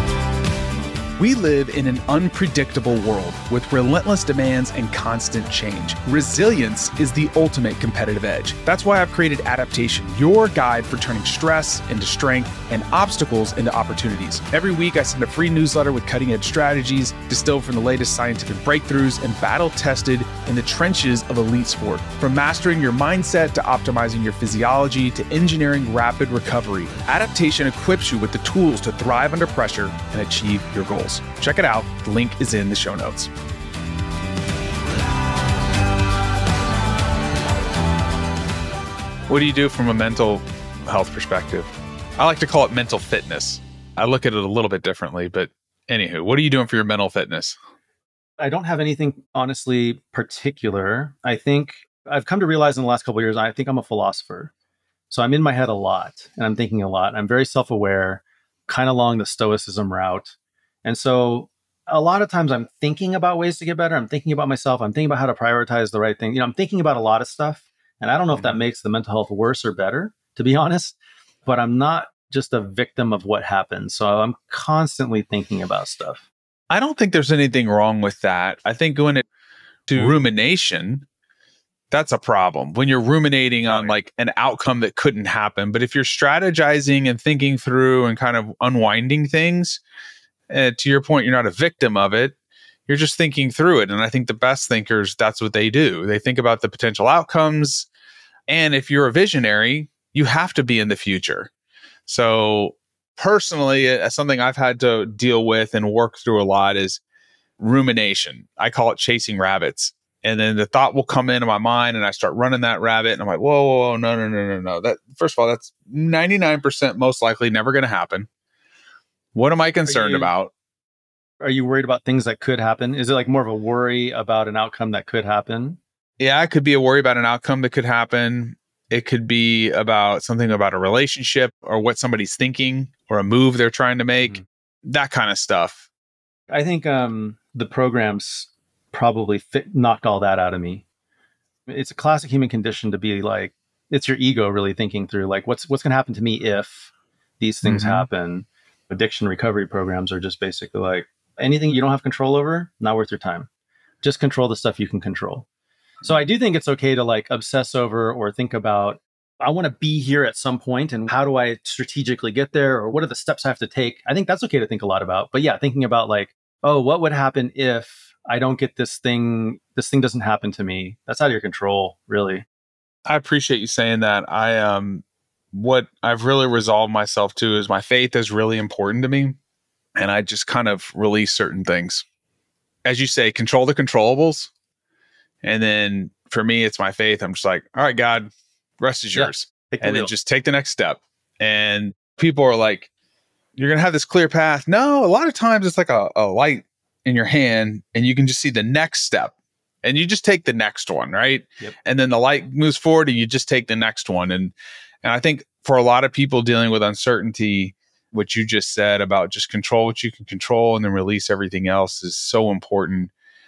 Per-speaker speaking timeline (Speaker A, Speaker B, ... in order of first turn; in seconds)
Speaker A: 1.2-33.3, 39.3-47.5, 68.3-68.6, 76.7-79.2, 79.9-81.0, 81.9-89.8, 90.5-92.3, 92.9-97.9, 98.5-101.5, 102.0-107.0, 107.6-118.3, 119.3-120.5, 126.2-135.9, 147.6-148.1, 173.1-179.4, 180.0-182.0, 182.8-184.5, 185.4-192.9, 193.6-213.1
Speaker B: 48.4-54.5, 55.1-76.2, 83.7-83.9, 119.9-120.3, 121.4-125.8, 136.5-140.8, 141.7-153.5, 154.0-155.4, 156.0-172.4, 189.1-190.1